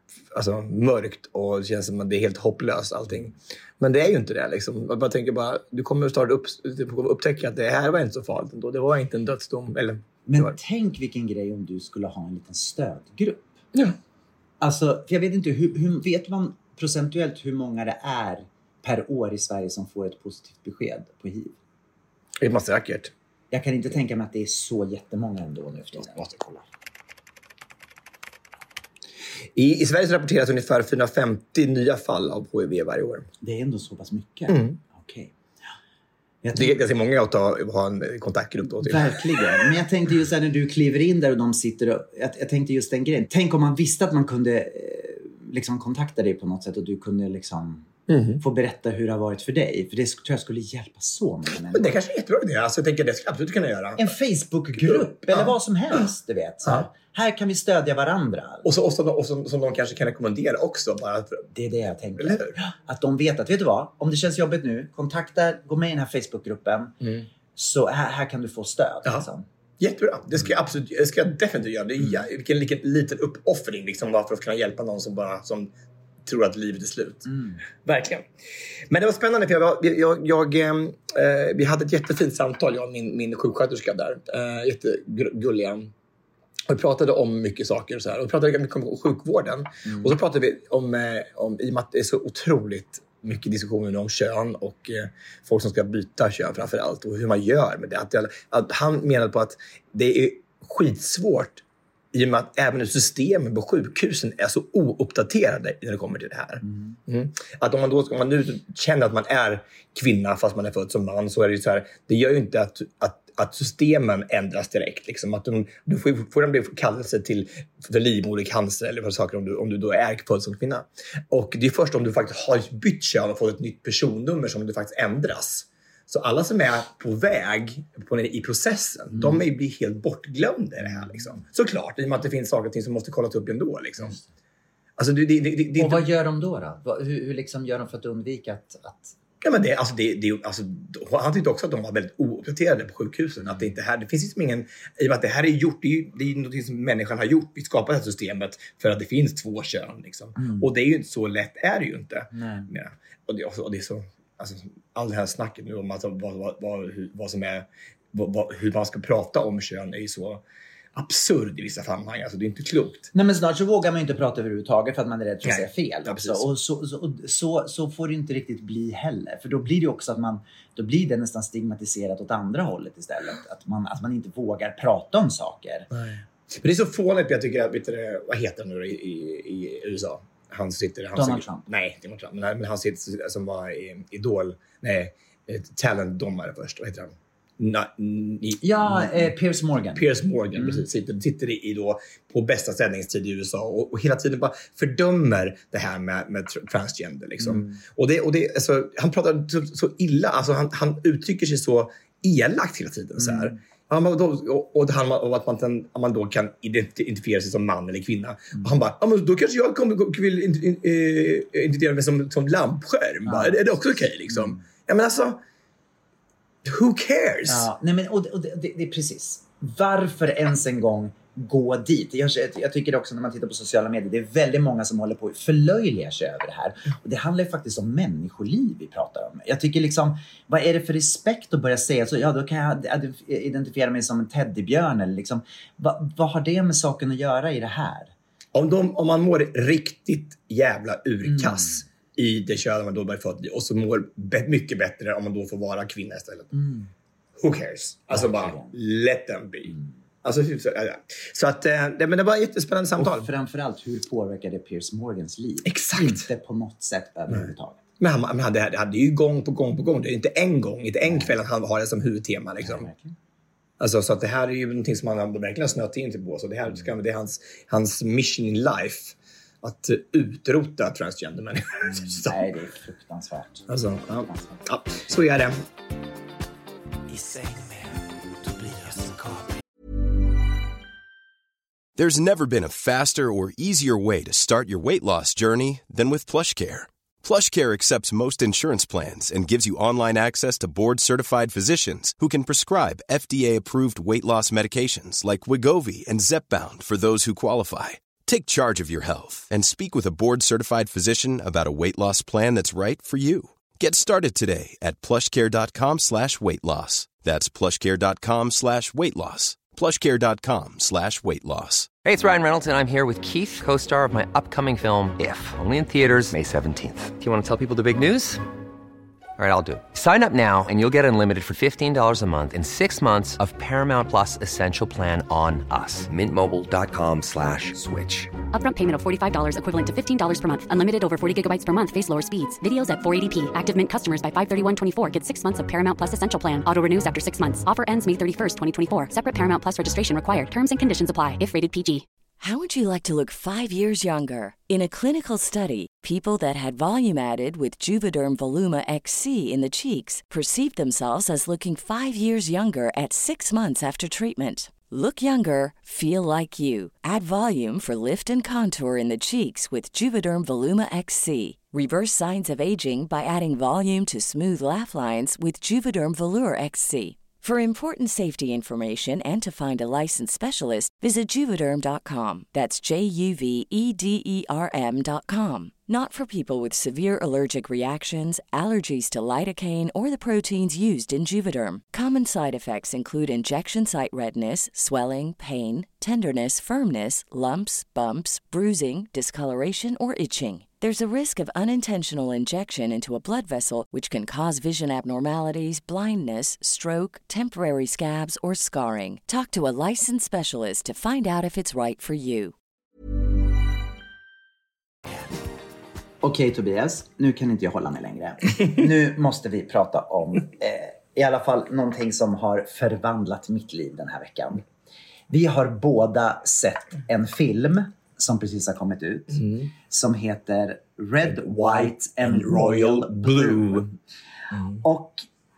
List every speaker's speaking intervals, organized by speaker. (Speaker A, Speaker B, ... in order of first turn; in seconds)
Speaker A: 0.3-10.6, 22.4-23.1, 25.9-26.6, 29.6-33.3, 34.5-34.8, 36.5-39.6, 48.1-48.4, 51.7-54.1, 54.8-56.1, 58.6-61.5, 62.2-62.5, 67.0-67.3, 69.8-75.7, 76.2-78.2, 78.9-85.9, 86.7-134.2, 135.0-136.1, 139.4-160.4, 160.9-163.1, 165.4-166.4, 175.9-189.3, 189.9-215.4, 216.6-217.7, 238.5-246.5, 247.4-253.3, 255.6-256.3, 258.0-262.9, 263.8-272.5, 273.7-275.5, 278.6-279.4, 419.3-419.7, 421.2-423.9, 424.5-424.8
Speaker B: 10.3-13.5, 14.6-21.5, 23.5-26.2, 33.4-35.3, 36.4-36.8, 38.8-47.9, 48.4-52.0, 54.0-58.7, 61.5-66.9, 67.5-69.5, 77.2-77.6, 89.8-90.2, 106.6-107.0, 129.1-129.4, 130.8-131.3, 135.8-139.2, 150.4-150.7, 152.3-152.7, 163.1-175.9, 181.1-181.6, 188.6-190.8, 197.4-197.7, 203.2-203.6, 213.2-213.7, 214.3-214.6, 217.5-238.1, 241.2-241.8, 246.5-246.9, 248.1-248.7, 253.0-257.8, 261.0-261.3, 262.6-263.1, 271.8-274.6, 406.2-414.6, 415.3-423.9, 424.8-425.2
Speaker C: 282.0-311.9
Speaker D: 312.0-318.4, 319.4-328.3
Speaker E: 328.5-342.0
Speaker F: 342.4-402.5